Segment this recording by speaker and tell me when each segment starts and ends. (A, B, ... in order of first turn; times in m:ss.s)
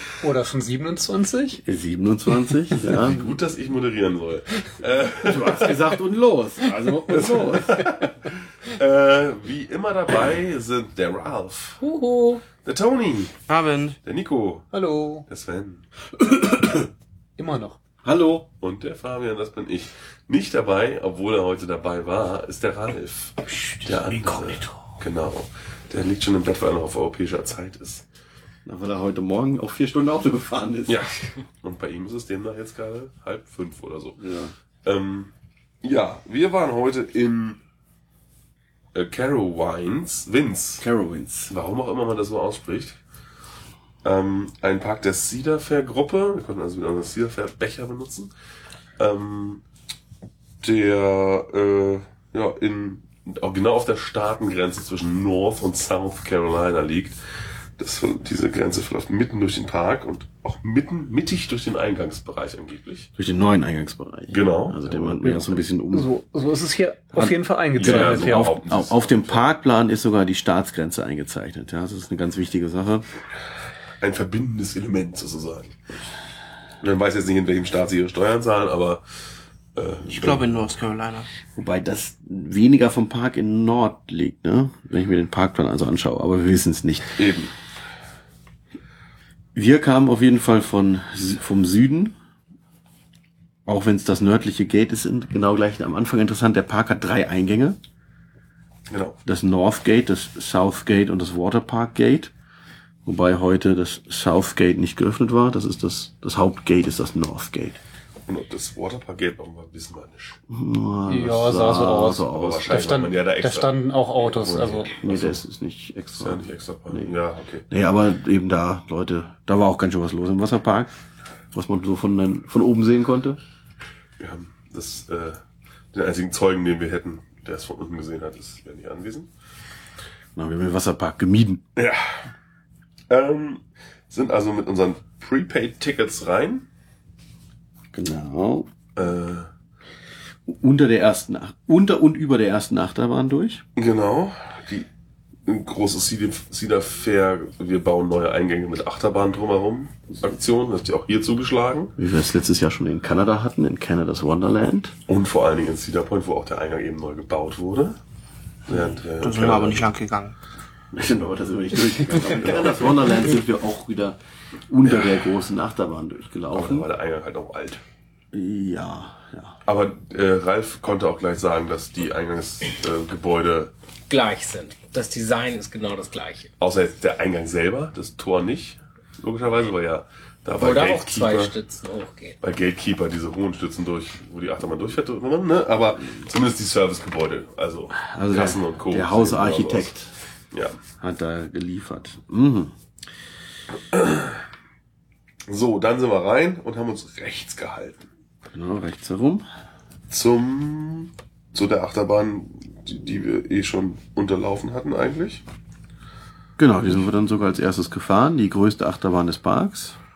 0:00.2-0:01.6 A
0:01.6-0:03.3 B
0:02.8-0:06.0 C
0:05.2-0:08.1 B
0:07.0-0:08.1 C
0:08.6-0:11.8 C
0:11.8-0:12.4 D
0:12.6-0:13.3 C
0:13.5-0:14.0 E
0:14.0-0:14.7 C
0:14.7-0:15.2 A
0:15.3-0:15.8 C
0:16.2-0:16.9 B
0:17.4-0:17.8 A
0:18.0-0:18.5 B
0:18.6-0:28.0 C
0:23.7-0:24.7 B
0:28.6-0:31.0 B
0:30.9-0:34.2 C
0:34.2-0:34.5 B
0:34.8-0:35.3 C
0:35.8-0:37.6 C
0:38.9-0:40.9 C
0:40.8-0:41.5 B
0:41.5-0:43.0 C
0:44.0-0:48.3 C
0:49.0-0:49.6 C
0:50.6-0:57.2 C
0:57.8-1:03.1 C
1:03.2-1:06.1 B
1:04.3-1:05.6 C
1:05.9-1:08.5 A
1:07.1-1:13.0 B
1:07.7-1:09.4 C
1:14.0-1:15.8 C
1:16.8-1:19.0 C
1:19.7-1:20.5 C
1:20.0-1:21.3 E
1:21.6-1:27.2 B
1:27.2-1:27.5 C
1:29.5-1:32.1 B
1:33.6-1:37.8 B
1:38.9-1:39.2 C
1:39.2-1:42.3 B
1:43.0-1:47.8 B
1:48.3-1:50.4 C
1:50.5-1:52.8 B
1:51.1-1:54.9 A
1:52.3-1:53.8 C
1:54.3-1:55.4 C
1:54.5-1:57.1 B
1:56.2-1:57.6 C
1:57.7-2:00.9 B
2:01.5-2:03.4 B
2:04.2-2:05.4 C
2:05.9-2:09.3 C
2:10.4-2:11.6 B
2:11.8-2:12.3 C
2:13.1-2:16.6 C
2:17.9-2:18.7 B
2:19.0-2:19.5 C
2:20.5-2:23.6 B
2:23.8-2:24.9 C
2:25.4-2:31.9 C
2:32.0-2:34.9 B
2:35.1-2:38.0 C
2:38.7-2:39.8 C
2:39.2-2:40.4 E
2:40.9-2:44.2 B
2:42.4-2:42.9 C
2:44.7-2:46.9 B
2:44.8-2:45.3 C
2:46.5-2:47.8 C
2:48.3-2:49.5 B
2:49.6-2:53.7 C
2:54.1-2:56.5 D
2:56.6-3:01.6 C
3:00.6-3:02.4 D
3:02.4-3:09.9 C
3:07.9-3:10.1 B
3:10.5-3:10.8 C
3:11.0-3:12.7 B
3:13.9-3:14.4 C
3:15.5-3:18.0 C
3:18.5-3:19.4 B
3:20.1-3:25.4 C
3:26.6-3:30.0 B